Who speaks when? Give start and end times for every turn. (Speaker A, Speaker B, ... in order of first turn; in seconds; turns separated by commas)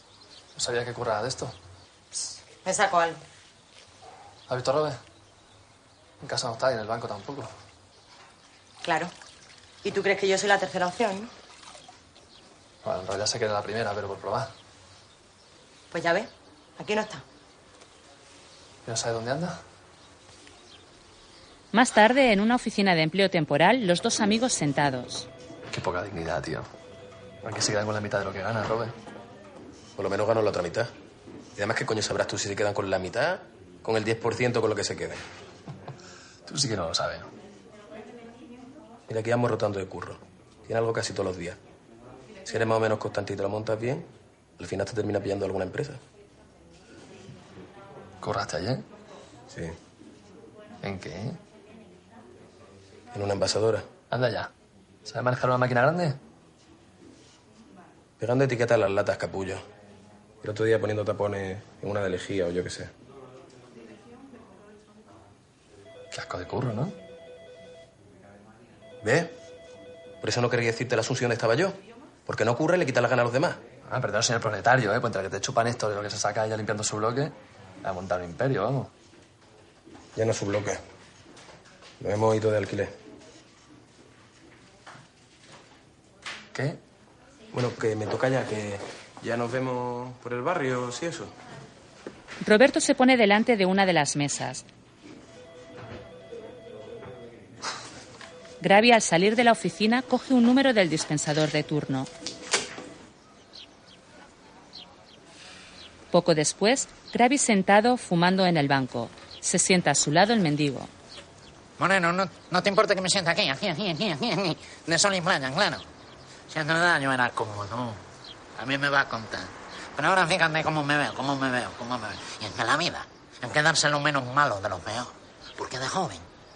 Speaker A: 0.6-1.5, Speaker B: 2.6-3.2, Speaker A: 4.5-5.0, Speaker A: 6.2-7.5, Speaker B: 8.8-9.1, Speaker B: 9.8-11.3, Speaker A: 12.8-14.5, Speaker B: 15.9-17.2, Speaker A: 18.9-19.6, Speaker C: 21.7-25.3, Speaker A: 25.7-26.7, Speaker A: 27.4-28.9, Speaker D: 30.0-30.9, Speaker D: 31.6-35.2, Speaker A: 36.5-37.3, Speaker D: 39.1-41.6, Speaker D: 42.5-44.1, Speaker D: 44.6-46.0, Speaker A: 48.2-48.9, Speaker D: 49.5-49.8, Speaker A: 50.8-51.4, Speaker D: 53.1-53.9, Speaker A: 54.1-54.5, Speaker A: 55.0-56.2, Speaker D: 58.2-59.6, Speaker D: 60.4-62.9, Speaker A: 66.1-67.0, Speaker D: 69.0-69.3, Speaker D: 70.2-73.6, Speaker A: 73.8-78.9, Speaker D: 80.2-80.8, Speaker D: 82.0-82.9, Speaker A: 86.5-86.8, Speaker D: 87.5-91.3, Speaker C: 92.4-94.6, Speaker C: 98.6-102.1, Speaker C: 106.1-110.9, Speaker E: 111.8-115.8, Speaker E: 116.5-118.0, Speaker E: 118.6-126.2